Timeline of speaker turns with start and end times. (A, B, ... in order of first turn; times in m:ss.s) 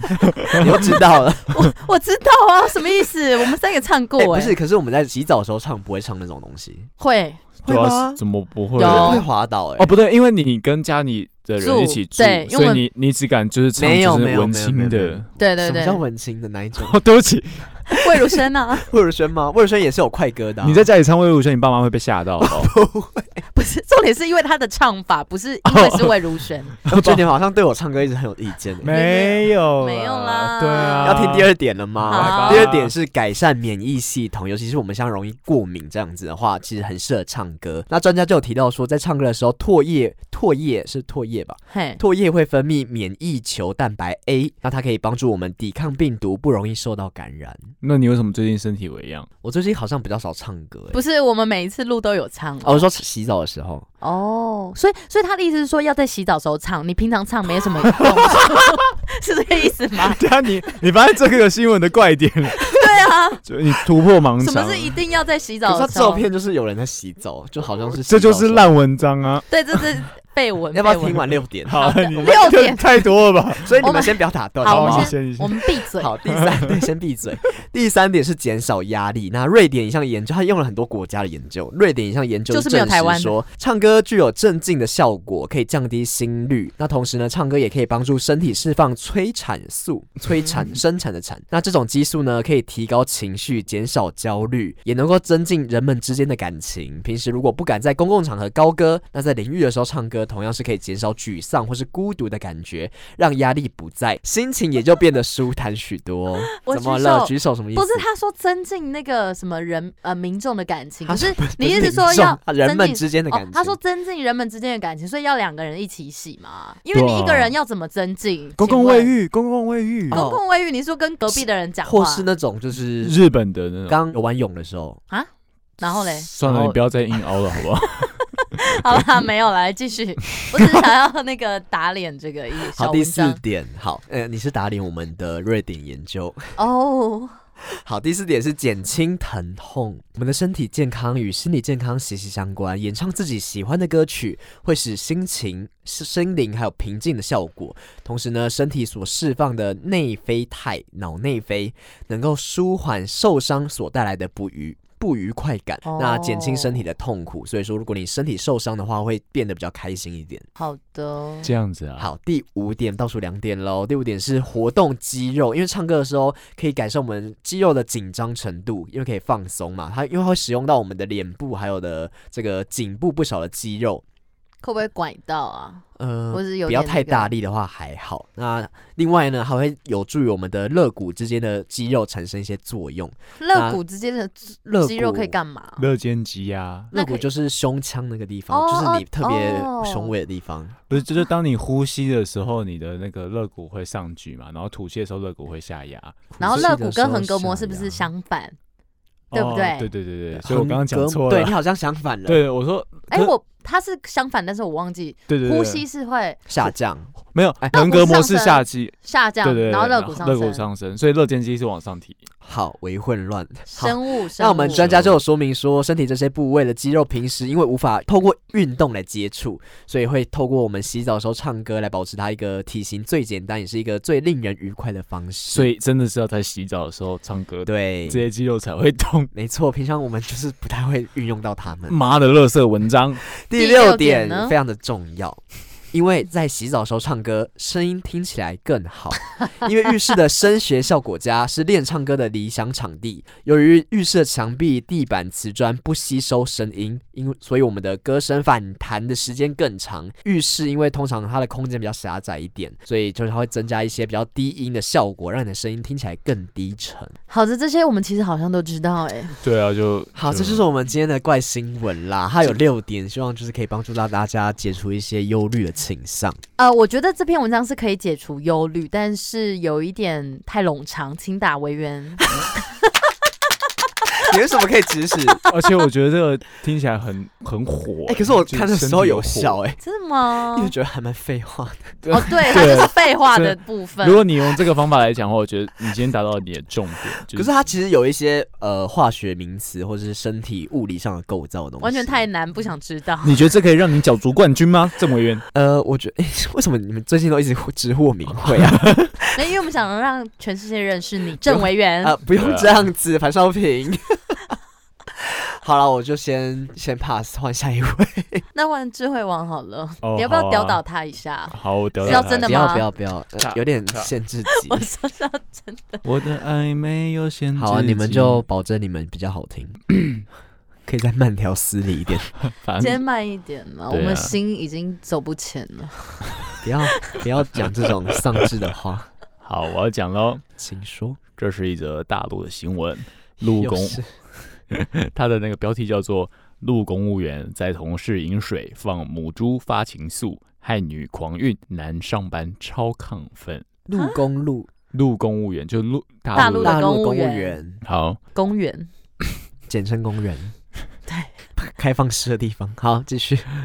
0:00.2-0:00.9 A
0:00.6-0:01.7 B
0:01.5-0:04.6 C
0:04.2-0:06.9 B
0:07.0-0:07.4 C
0:07.6-0:08.2 B
0:07.6-0:09.3 A
0:08.8-0:09.2 C
0:08.8-0:09.9 B
0:09.8-0:15.3 A
0:11.6-0:12.8 C
0:13.8-0:17.0 B
0:15.4-0:16.0 C
0:16.8-0:18.2 A
0:17.9-0:18.9 C
0:18.9-0:20.9 B
0:20.6-0:22.7 A
0:22.4-0:23.4 B
0:23.5-0:26.8 C
0:25.6-0:26.2 A
0:26.8-0:27.2 A
0:26.9-0:28.9 B
0:28.8-0:32.9 A
0:28.9-0:31.3 C
0:31.0-0:47.7 B
0:32.1-0:32.7 C
0:41.7-0:42.0 C
0:47.8-0:49.3 A
0:49.4-0:51.0 B
0:50.9-0:52.9 C
0:52.6-0:53.9 B
0:54.0-1:00.2 C
0:58.0-0:58.5 A
1:00.1-1:02.8 A
1:02.7-1:03.4 C
1:03.4-1:05.0 A
1:04.4-1:06.3 C
1:05.7-1:08.7 B
1:08.0-1:09.8 A
1:09.5-1:13.1 C
1:10.7-1:12.5 B
1:11.7-1:13.8 A
1:13.6-1:15.2 B
1:13.8-1:16.2 C
1:14.7-1:16.8 A
1:16.0-1:48.0 B
1:22.5-1:23.4 C
1:46.5-1:59.1 C
1:51.1-1:53.8 B
1:56.9-1:57.6 A
1:58.6-2:00.2 A
2:00.1-2:00.4 B
2:00.1-2:02.3 C
2:01.4-2:03.2 B
2:03.0-2:04.0 A
2:03.9-2:05.0 B
2:05.1-2:06.3 C
2:06.3-2:09.1 A
2:06.4-2:06.8 B
2:08.0-2:13.4 C
2:12.8-2:16.6 B
2:16.6-2:17.4 C
2:17.8-2:40.4 B
2:35.8-2:36.8 C
2:40.6-2:41.5 C
2:41.4-2:42.1 A
2:42.0-2:54.0 B
2:54.6-2:57.3 C
2:56.0-3:03.8 B
3:03.4-3:05.8 C
3:04.7-3:05.4 B
3:05.8-3:06.9 A
3:06.9-3:10.8 B
3:06.9-3:07.3 C
3:08.5-3:10.1 C
3:10.9-3:16.7 A
3:16.4-3:18.1 B
3:16.4-3:18.6 C
3:19.3-3:19.9 C
3:19.3-3:21.6 A
3:20.3-3:22.4 B
3:22.3-3:23.3 A
3:23.1-3:26.4 C
3:25.3-3:25.8 A
3:26.5-3:27.8 B
3:27.3-3:32.2 A
3:27.7-3:30.6 C
3:32.4-3:45.7 B
3:33.7-3:34.9 C
3:34.7-3:35.2 A
3:45.5-3:49.3 A
3:47.7-3:48.3 B
3:49.3-3:52.0 B
3:51.9-3:53.2 A
3:53.3-3:55.4 B
3:53.6-3:54.6 C
3:55.9-4:17.2 B
4:17.3-4:19.4 C
4:19.4-4:20.6 A
4:20.2-4:26.4 B
4:26.6-4:32.3 C
4:34.2-4:35.4 B
4:35.3-4:35.6 C
4:35.5-4:39.6 A
4:38.1-4:39.8 B
4:39.8-4:40.7 C
4:40.5-4:42.0 B
4:42.0-4:47.5 A
4:42.1-4:44.2 C
4:47.3-4:52.2 B
4:51.8-4:53.4 C
4:53.2-4:55.4 A
4:55.5-4:59.4 B
4:58.6-4:59.1 A
4:59.4-5:02.2 C
5:01.5-5:04.5 B
5:02.4-5:02.8 A
5:05.2-5:08.4 B
5:08.5-5:12.9 C
5:10.0-5:10.8 A
5:11.5-5:12.7 A
5:12.0-5:14.9 B
5:13.4-5:14.1 A
5:14.5-5:16.0 C
5:16.0-5:18.4 A
5:17.6-5:19.8 B
5:20.0-5:20.2 A
5:20.9-5:22.3 B
5:22.4-5:23.0 A
5:22.8-5:26.3 C
5:23.9-5:24.3 A
5:26.6-5:29.1 B
5:28.1-5:28.5 A
5:29.4-5:30.4 A
5:30.6-5:31.2 B
5:31.4-5:34.0 A
5:33.5-5:34.1 B
5:34.7-5:43.7 A
5:43.9-5:44.7 B
5:44.9-5:46.8 A
5:46.4-5:47.6 C
5:46.4-5:47.8 B
5:47.8-5:48.2 A
5:48.3-5:48.9 C
5:49.7-5:50.6 B
5:51.1-5:51.3 C
5:51.6-5:53.5 B